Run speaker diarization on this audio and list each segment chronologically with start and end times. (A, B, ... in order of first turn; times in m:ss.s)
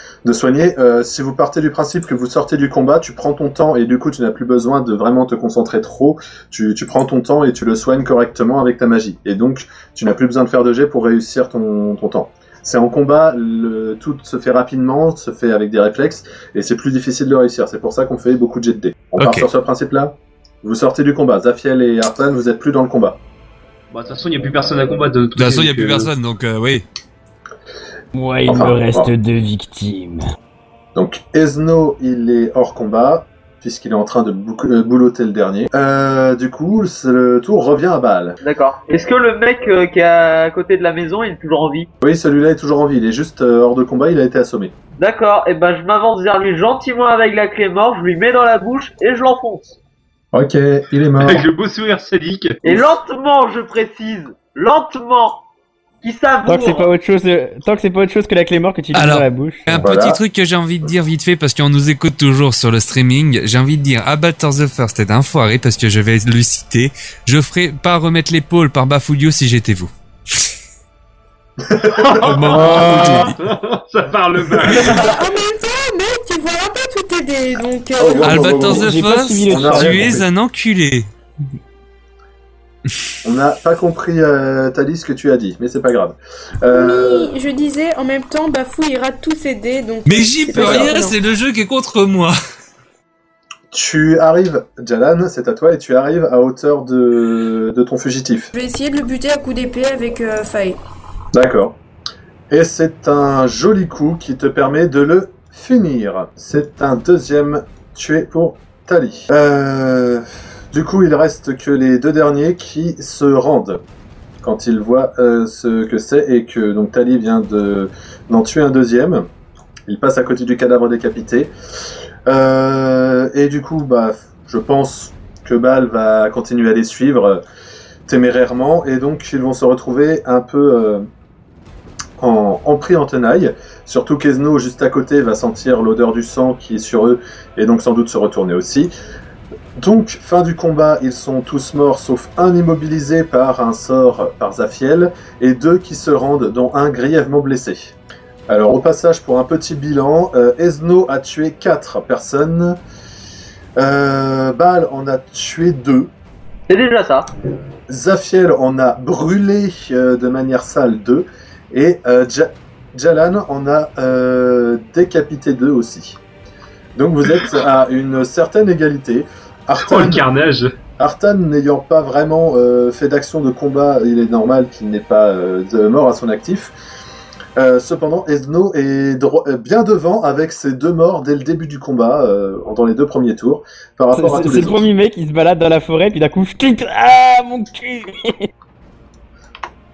0:00.2-0:23.2 A
0:19.2-0:19.5 B
0:23.9-0:26.1 C
0:25.4-0:26.8 B
0:28.1-0:30.2 D
0:28.5-0:29.1 A
0:30.9-0:38.4 A
0:38.4-0:41.9 E
0:42.0-0:44.7 A
0:45.0-0:49.8 E
0:50.3-0:51.4 A
0:51.2-0:52.9 C
0:52.6-0:55.4 E
0:56.0-0:56.9 E
0:56.4-0:59.8 D
0:58.9-1:09.9 B
0:59.8-1:00.2 A
1:11.6-1:12.3 A
1:12.2-1:13.3 E
1:12.2-1:13.3 B
1:12.3-1:15.1 C
1:15.0-1:18.7 F
1:18.0-1:20.3 A
1:18.2-1:21.1 B
1:18.6-1:20.2 D
1:23.2-1:27.3 A
1:26.7-1:31.2 F
1:30.0-1:32.3 B
1:30.5-1:31.0 A
1:33.7-1:38.5 A
1:38.5-1:40.8 F
1:41.3-1:41.8 A
1:42.5-1:53.8 A
1:54.4-1:59.2 A
1:59.8-2:01.5 A
2:02.2-2:07.4 A
2:08.1-2:11.0 A
2:12.2-2:18.9 A
2:19.8-2:27.9 A
2:28.5-2:32.8 A
2:33.8-2:36.1 A
2:36.7-2:37.3 E
2:37.9-2:46.2 A
2:47.0-2:50.2 A
2:49.8-2:50.7 C
2:51.0-2:56.7 A
2:57.6-3:04.9 A
3:04.1-3:08.5 D